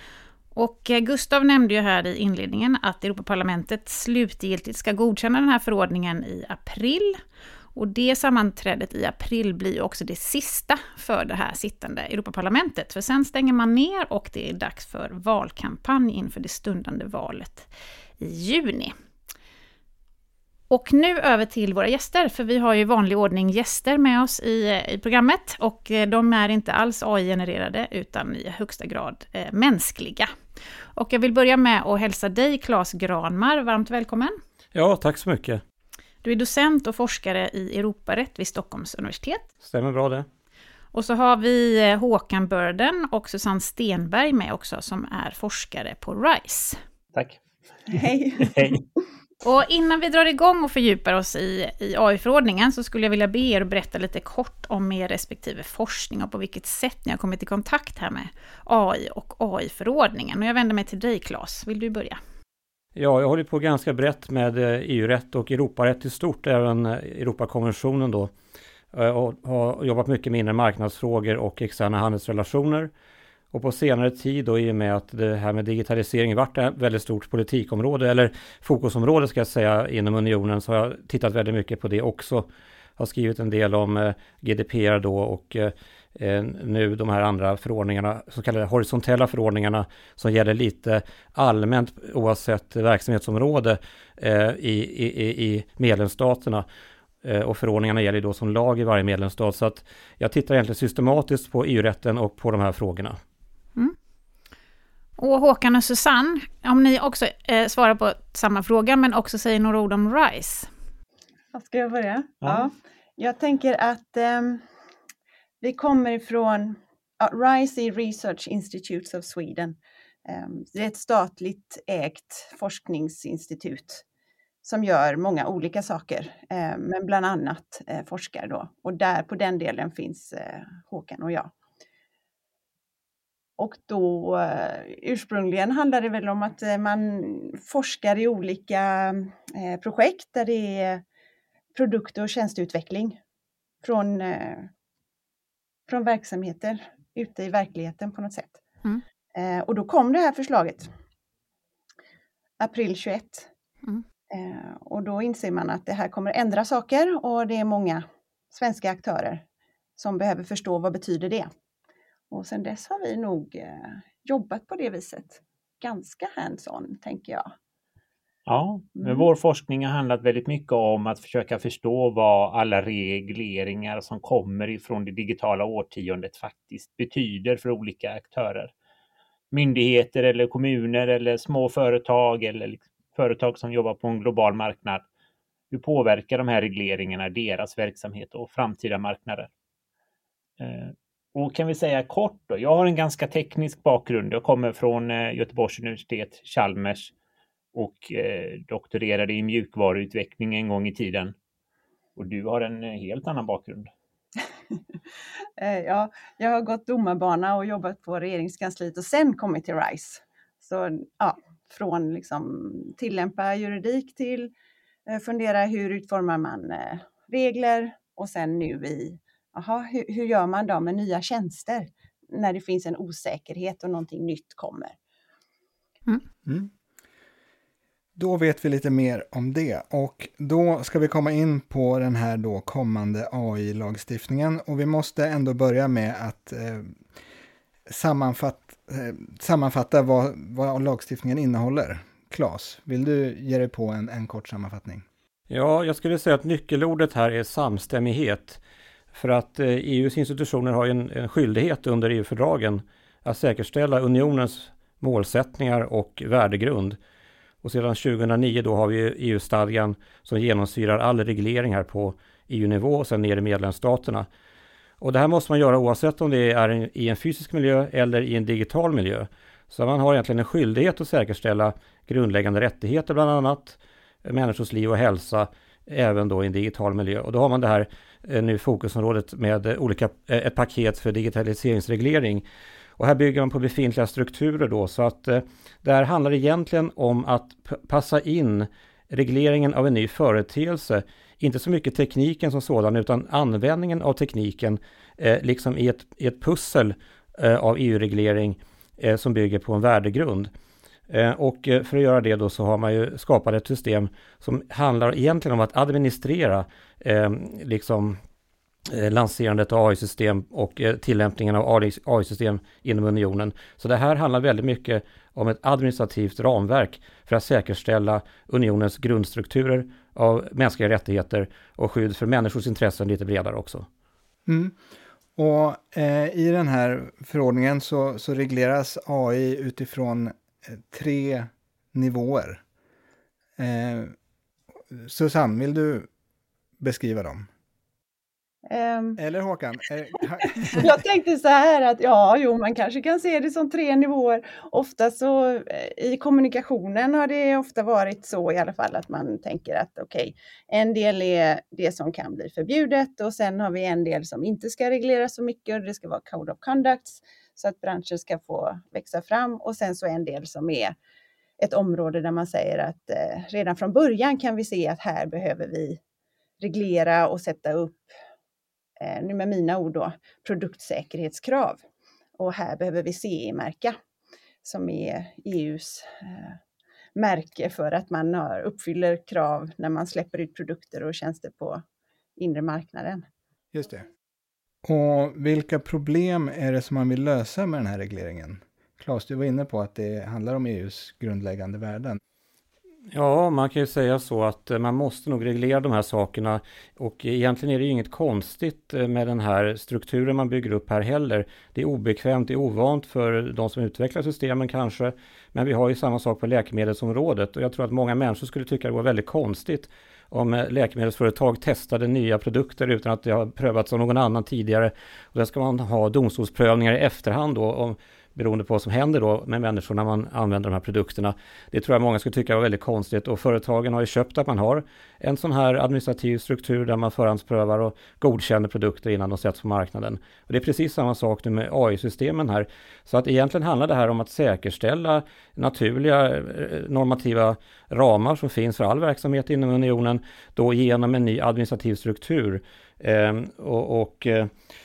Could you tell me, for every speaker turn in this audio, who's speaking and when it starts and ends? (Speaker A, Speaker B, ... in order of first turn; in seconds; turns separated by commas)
Speaker A: 0.5-7.2, Speaker A: 7.7-17.7, Speaker A: 18.2-18.9, Speaker A: 20.7-30.3, Speaker A: 30.9-34.3, Speaker B: 34.7-35.6, Speaker A: 36.2-39.5, Speaker B: 39.6-40.3, Speaker A: 40.9-46.8, Speaker C: 47.1-47.4, Speaker D: 47.9-48.7, Speaker A: 49.4-62.2, Speaker B: 63.0-68.3, Speaker B: 68.9-72.9, Speaker B: 73.5-96.6, Speaker B: 97.2-103.2, Speaker A: 105.2-110.7, Speaker D: 111.5-114.6, Speaker D: 115.6-124.0, Speaker D: 124.6-131.5, Speaker D: 133.6-141.0, Speaker D: 141.7-143.2, Speaker D: 143.8-144.7, Speaker D: 145.9-148.6, Speaker D: 149.3-150.9, Speaker D: 152.6-153.5, Speaker D: 154.3-159.4, Speaker D: 160.0-161.5, Speaker D: 162.3-167.5, Speaker C: 168.4-178.7, Speaker D: 169.0-169.3, Speaker C: 179.5-185.0, Speaker C: 185.7-189.5, Speaker C: 190.6-197.1, Speaker C: 197.7-201.3, Speaker C: 202.2-203.9, Speaker D: 205.6-214.5, Speaker D: 215.1-224.9, Speaker E: 226.4-226.7, Speaker E: 228.2-237.0, Speaker E: 237.9-245.0, Speaker B: 245.5-248.6, Speaker B: 249.1-257.0, Speaker B: 257.6-264.3, Speaker B: 265.0-282.4, Speaker B: 283.0-300.5, Speaker B: 301.1-308.2, Speaker B: 308.9-323.9, Speaker E: 324.4-324.8, Speaker E: 325.4-332.6, Speaker E: 333.6-334.1, Speaker E: 334.9-336.1, Speaker E: 336.8-337.5, Speaker D: 338.7-339.2, Speaker E: 339.2-340.9, Speaker D: 340.6-360.9, Speaker D: 361.6-366.0, Speaker D: 366.6-368.1, Speaker D: 369.0-371.8, Speaker D: 372.4-374.0, Speaker D: 374.6-376.6, Speaker D: 377.1-381.8, Speaker D: 382.4-383.2, Speaker E: 383.7-384.1, Speaker E: 384.8-392.2, Speaker B: 393.1-444.5